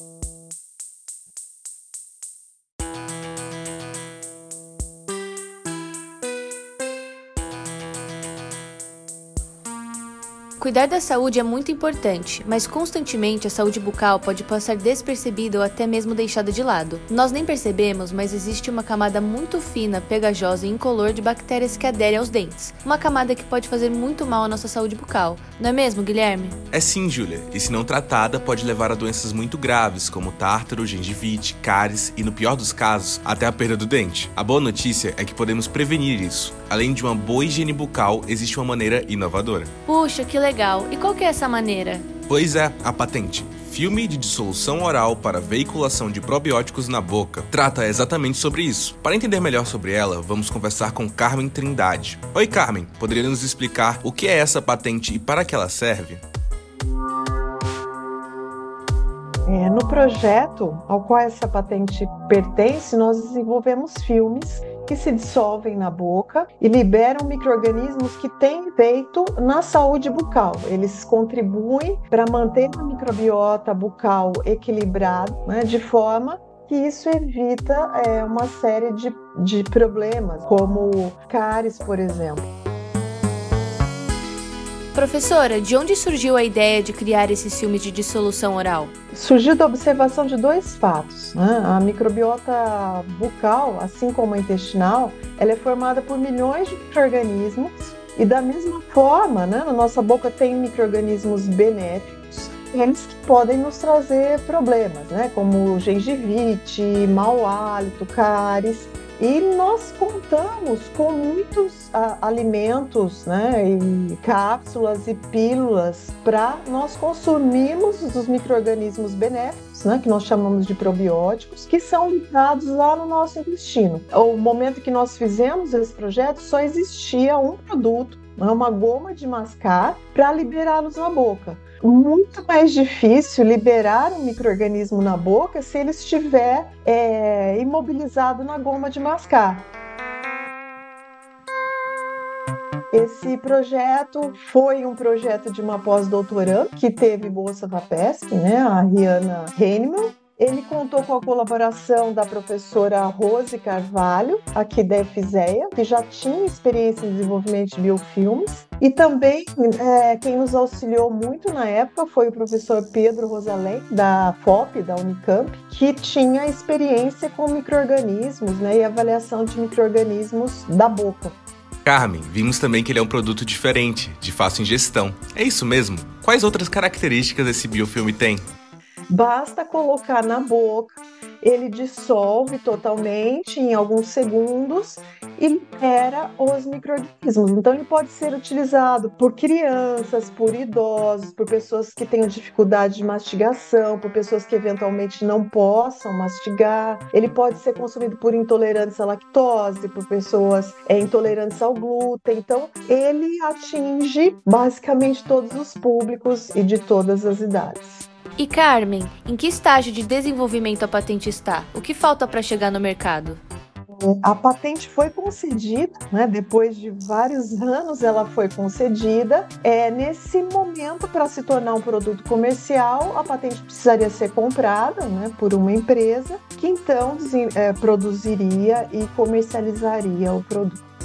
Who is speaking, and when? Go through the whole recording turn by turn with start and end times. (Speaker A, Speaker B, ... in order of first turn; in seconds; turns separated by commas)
Speaker A: 10.6-26.6, Speaker B: 26.7-39.7, Speaker A: 39.9-42.1, Speaker B: 42.3-56.2, Speaker C: 59.5-82.5, Speaker A: 84.9-88.9, Speaker C: 89.1-139.7, Speaker C: 142.9-171.4, Speaker B: 171.8-178.4, Speaker C: 179.1-208.1, Speaker A: 208.4-213.4, Speaker C: 213.9-230.8